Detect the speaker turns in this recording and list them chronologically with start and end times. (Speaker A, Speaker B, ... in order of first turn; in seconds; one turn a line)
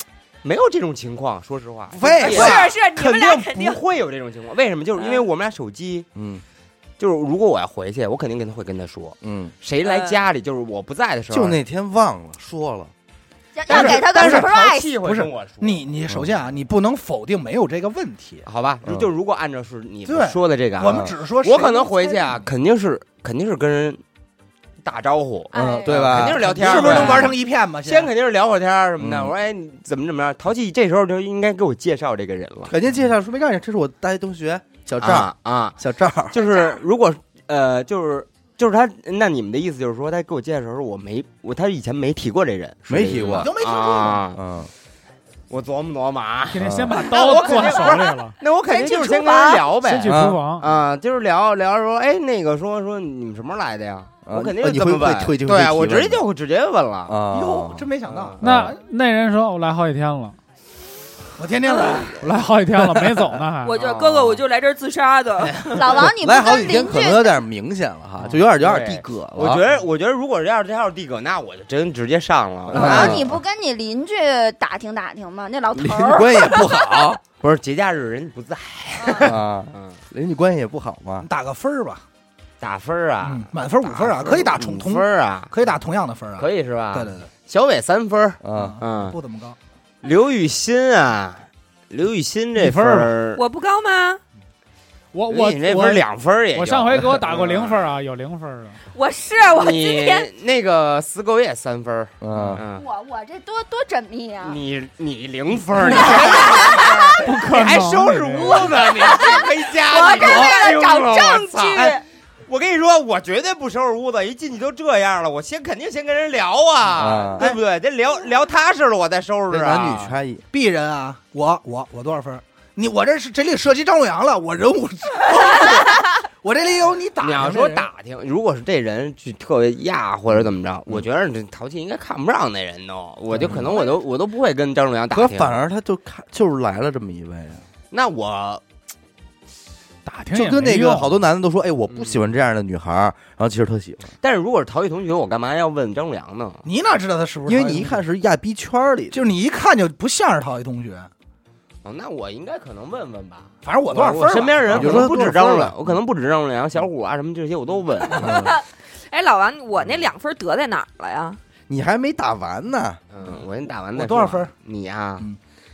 Speaker A: 0.4-6.1
Speaker B: 1.9-2.7
Speaker C: 2.2-3.8
Speaker D: 6.2-6.4
Speaker A: 7.0-11.6
Speaker D: 9.2-9.5
Speaker C: 9.8-10.2
Speaker D: 11.3-12.9
Speaker E: 13.6-14.9
Speaker A: 13.7-15.8
Speaker B: 13.7-18.5
Speaker A: 18.4-24.0
Speaker D: 18.8-19.1
Speaker B: 20.1-22.5
Speaker A: 24.8-32.7
Speaker E: 25.5-26.1
Speaker D: 25.6-27.3
Speaker B: 25.9-28.1
Speaker D: 29.0-29.4
Speaker D: 32.7-36.4
Speaker A: 35.0-35.8
Speaker A: 36.3-44.4
Speaker D: 42.9-43.5
Speaker B: 43.2-44.3
Speaker D: 44.3-44.7
Speaker A: 45.5-57.2
Speaker F: 46.5-48.4
Speaker D: 46.6-47.0
Speaker E: 48.6-49.7
Speaker F: 49.8-50.6
Speaker D: 50.0-50.4
Speaker D: 54.3-56.2
Speaker D: 57.1-57.9
Speaker B: 57.3-58.8
Speaker A: 58.1-58.4
Speaker F: 58.4-60.4
Speaker B: 61.4-62.2
Speaker F: 62.2-63.7
Speaker C: 63.6-65.7
Speaker A: 63.7-64.4
Speaker E: 65.8-67.4
Speaker D: 65.9-69.6
Speaker A: 68.2-73.3
Speaker D: 72.7-73.4
Speaker E: 72.7-76.7
Speaker D: 75.8-77.2
Speaker A: 77.3-80.0
Speaker D: 79.2-81.3
Speaker B: 81.2-82.0
Speaker A: 82.6-85.5
Speaker B: 83.2-87.3
Speaker A: 86.4-89.2
Speaker D: 88.4-88.8
Speaker B: 88.5-89.6
Speaker A: 90.0-93.4
Speaker F: 92.6-93.1
Speaker C: 93.4-94.2
Speaker F: 95.1-98.8
Speaker A: 95.3-97.8
Speaker C: 98.9-100.3
Speaker A: 99.5-102.9
Speaker D: 102.2-102.6
Speaker E: 102.7-104.6
Speaker A: 104.4-112.0
Speaker F: 105.8-106.2
Speaker E: 106.1-107.2
Speaker F: 107.2-108.7
Speaker E: 108.9-112.0
Speaker B: 110.1-110.5
Speaker A: 112.5-120.2
Speaker D: 117.0-117.5
Speaker D: 119.5-120.4
Speaker B: 120.5-127.9
Speaker A: 127.2-135.6
Speaker D: 133.4-133.8
Speaker D: 135.1-137.6
Speaker A: 137.9-138.6
Speaker F: 140.1-141.1
Speaker D: 140.3-144.2
Speaker A: 141.9-142.2
Speaker A: 144.2-146.7
Speaker B: 146.7-148.0
Speaker D: 147.5-149.2
Speaker B: 149.1-151.1
Speaker A: 151.8-158.5
Speaker B: 153.6-155.7
Speaker D: 154.7-155.7
Speaker C: 158.2-161.4
Speaker D: 158.2-158.5
Speaker D: 161.7-163.0
Speaker A: 163.1-165.3
Speaker B: 163.9-164.5